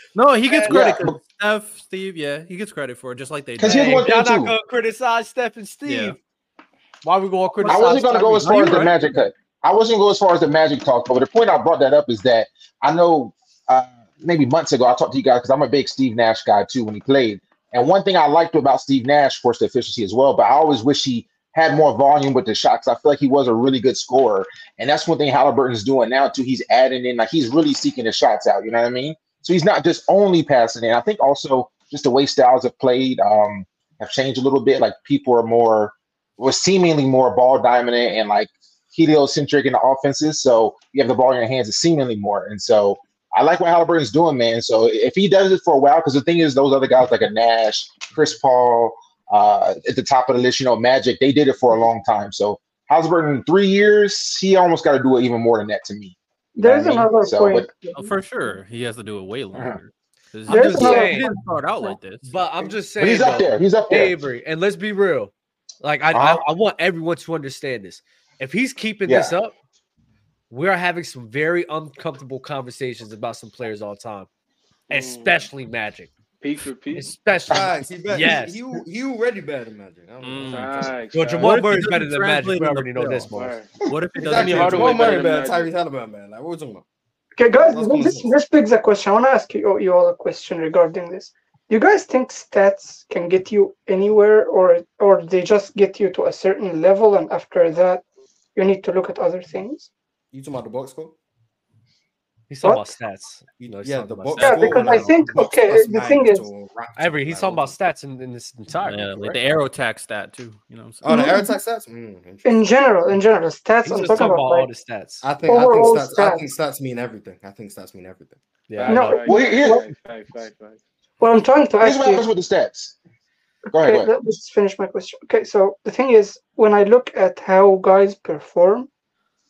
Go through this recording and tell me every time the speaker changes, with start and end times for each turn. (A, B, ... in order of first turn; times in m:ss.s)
0:00.2-0:04.0 A
0:00.5-0:00.8 B
0:00.7-0:01.2 C
0:03.6-0:04.5 C
0:03.6-0:06.2 B
0:05.8-0:06.2 A
0:07.0-0:08.9 B
0:07.7-0:57.7 C
0:08.4-0:09.1 A
0:56.5-0:58.1 D
0:57.9-1:02.3 A
1:00.5-1:01.3 B
1:00.5-1:01.9 D
1:02.2-1:09.5 B
1:03.0-1:04.2 C
1:06.1-1:06.4 C
1:09.1-1:09.3 C
1:10.5-1:14.3 B
1:14.9-1:15.4 E
1:14.9-1:16.1 B
1:16.4-1:17.1 E
1:16.9-1:18.6 B
1:17.5-1:21.0 F
1:20.2-1:20.8 A
1:20.4-1:21.6 E
1:21.1-1:23.5 B
1:21.4-1:23.3 A
1:23.3-1:23.7 E
1:23.9-1:25.3 A
1:24.2-1:26.8 F
1:24.2-1:25.7 E
1:27.4-1:38.0 D
1:27.6-1:28.3 F
1:38.6-1:39.9 D
1:40.3-1:41.2 F
1:42.5-1:45.1 B
1:42.6-1:42.9 D
1:43.6-1:47.8 F
1:44.4-1:44.7 A
1:44.4-1:46.5 D
1:47.0-1:49.4 B
1:48.8-1:51.0 A
1:51.0-1:52.4 F
1:51.0-1:51.6 D
1:52.4-1:54.7 D
1:53.8-1:55.2 B
1:55.2-1:58.4 F
1:55.5-1:56.5 D
1:58.7-1:59.2 B
1:58.7-2:00.8 E
1:58.9-1:59.8 D
1:59.2-1:59.8 C
2:01.2-2:02.2 D
2:01.8-2:03.0 C
2:03.7-2:04.1 C
2:03.7-2:08.9 D